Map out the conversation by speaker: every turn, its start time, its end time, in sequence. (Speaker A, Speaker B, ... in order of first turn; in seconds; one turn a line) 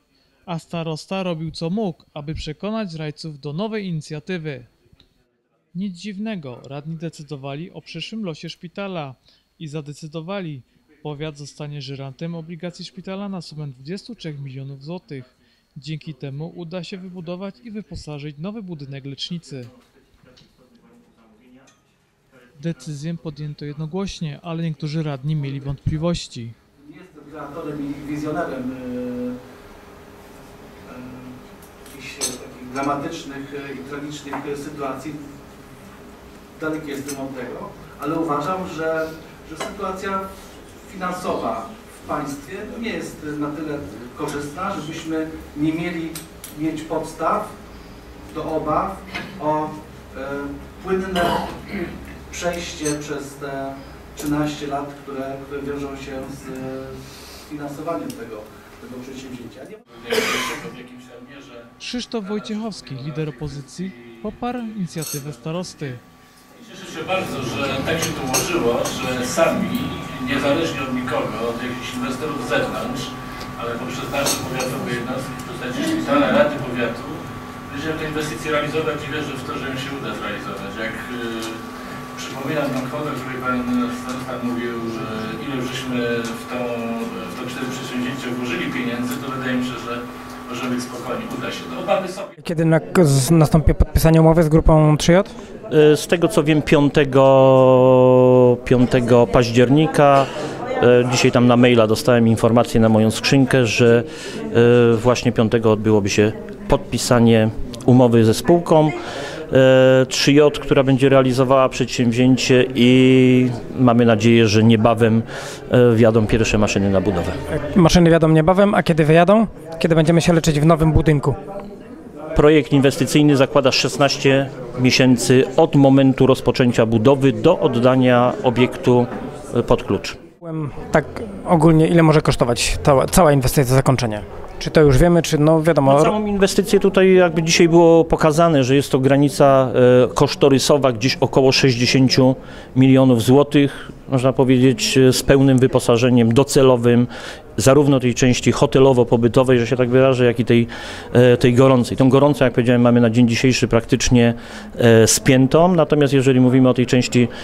Speaker A: 0.5-4.7
Speaker A: 5.7-19.7
Speaker A: 22.6-26.6
Speaker B: 26.8-29.4
Speaker B: 30.8-35.3
Speaker B: 36.5-40.3
Speaker B: 40.8-47.5
Speaker B: 48.3-51.8
Speaker B: 52.3-59.8
Speaker C: 59.9-61.7
Speaker A: 61.8-66.0
Speaker C: 62.2-64.3
Speaker C: 65.0-65.5
Speaker C: 66.5-81.6
Speaker C: 82.1-92.3
Speaker D: 92.4-95.3
Speaker E: 95.7-108.9
Speaker E: 109.5-115.2
Speaker E: 115.9-117.4
Speaker D: 117.5-121.3
Speaker E: 122.3-129.1
Speaker E: 129.6-130.2
Speaker D: 130.4-136.1
Speaker E: 135.9-147.1
Speaker B: 147.6-147.9
Speaker E: 147.7-154.3
Speaker E: 154.9-157.3